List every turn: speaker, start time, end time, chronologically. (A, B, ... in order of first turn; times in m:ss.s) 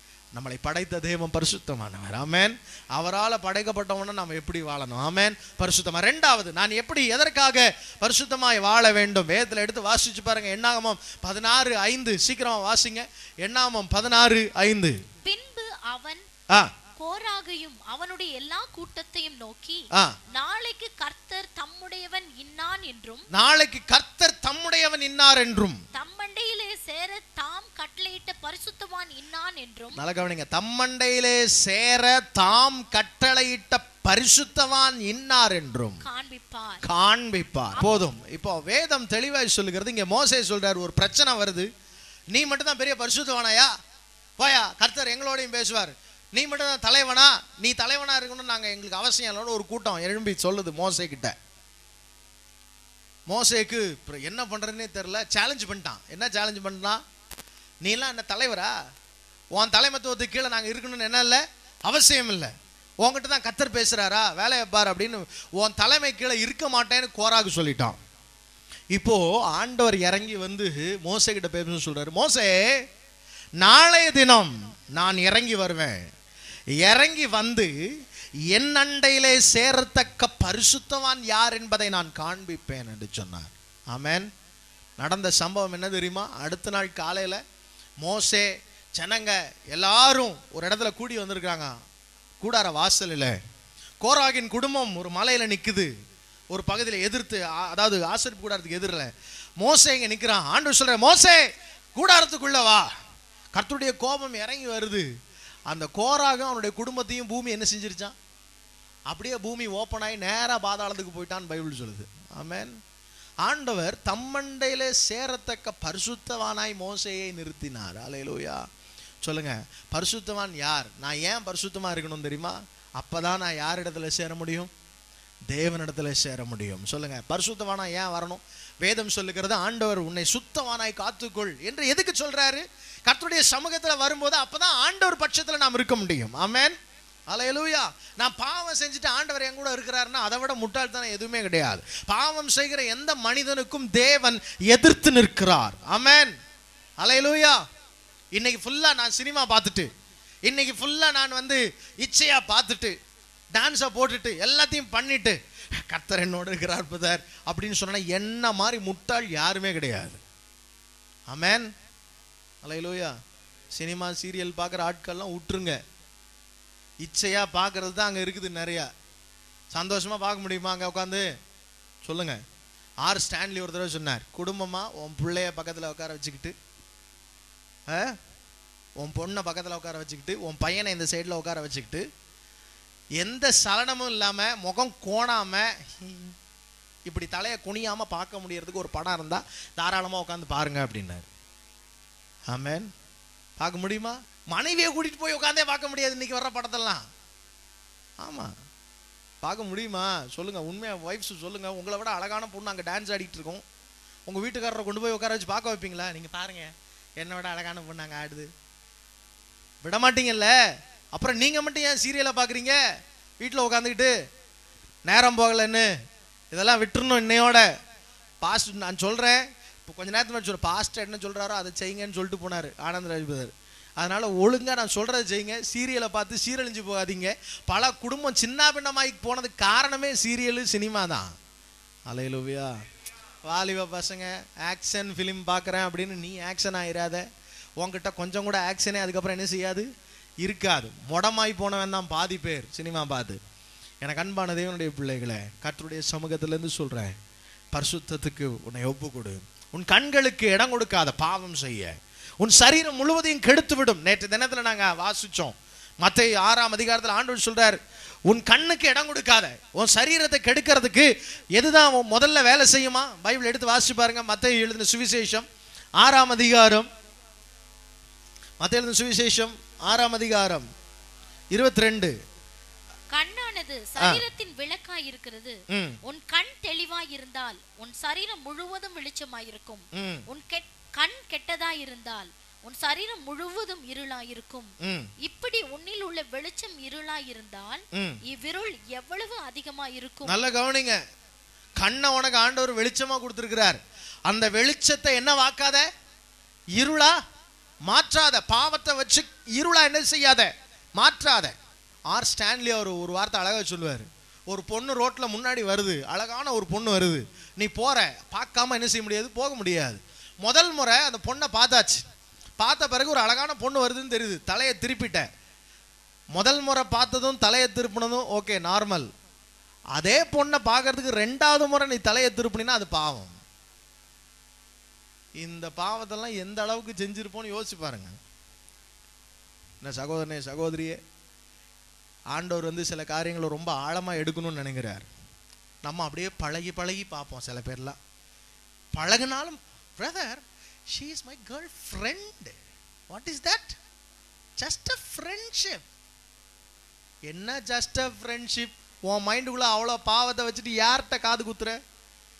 0:00.3-0:15.0 A
0:15.2-0:16.2 B
0:17.0-0:23.3 B
0:23.3-0:25.8 A
0:25.9-0:30.0 B
0:30.0-0:36.0 A
0:36.0-0:36.8 B
0:36.8-0:41.7 A
0:37.8-0:38.0 B
0:42.3-0:43.7 A
0:44.4-0:51.3 A
0:53.3-0:57.0 A
0:57.8-0:58.7 A
0:59.5-1:08.0 A
1:08.9-1:12.6 A
1:13.6-1:16.0 A
1:16.8-1:17.7 A
1:18.5-1:24.3 A
1:25.0-1:27.4 A
1:28.0-1:31.7 A
1:32.4-1:33.4 A
1:34.0-1:35.9 A
1:36.5-1:39.1 A
1:39.6-1:41.4 A
1:41.9-1:42.9 A
1:43.5-1:45.0 A
1:45.7-1:48.1 A
1:49.1-1:52.7 A
1:53.4-1:58.6 A
1:59.2-2:04.7 A
2:05.5-2:16.7 A
2:17.3-2:26.3 A
2:27.0-2:27.6 A
2:28.3-2:29.9 A
2:30.4-2:32.9 A
2:33.5-2:40.2 A
2:41.3-2:41.7 A
2:42.6-2:43.1 A
2:43.7-2:45.8 A
2:47.0-2:48.9 A
2:49.7-2:51.2 A
2:52.0-2:52.4 A
2:53.0-2:56.5 A
2:57.9-2:58.1 A
2:59.0-3:02.0 A
3:03.2-3:06.3 A
3:07.1-3:11.3 A
3:12.5-3:12.9 A
3:13.6-3:17.0 A
3:18.2-3:18.5 A
3:19.4-3:23.6 A
3:24.3-3:28.5 A
3:29.8-3:30.5 A
3:31.1-3:32.8 A
3:33.4-3:34.1 A
3:35.0-3:35.9 A
3:36.5-3:37.7 A
3:38.4-3:51.3 A
3:52.1-3:52.7 A
3:53.4-3:57.2 A
3:57.8-3:59.9 A
4:00.4-4:03.4 A
4:04.0-4:07.2 A
4:07.7-4:25.4 A
4:26.0-4:26.9 A
4:28.6-4:30.6 A
4:31.5-4:32.1 A
4:33.1-4:44.7 B
4:35.7-4:36.0 A
4:39.9-4:40.2 A
4:44.8-4:45.1 A
4:45.2-4:50.4 B
4:47.9-4:48.2 A
4:50.2-4:51.0 A
4:51.8-4:55.8 A
4:56.7-4:57.1 A
4:57.9-5:01.5 A
5:02.1-5:12.0 A
5:12.6-5:15.3 A
5:16.3-5:19.1 A
5:19.9-5:23.4 A
5:25.4-5:28.2 A
5:29.8-5:31.0 A
5:32.3-5:35.0 A
5:35.8-5:38.0 A
5:38.9-5:42.6 A
5:43.1-5:43.8 A
5:44.6-5:45.8 A
5:47.3-5:51.8 A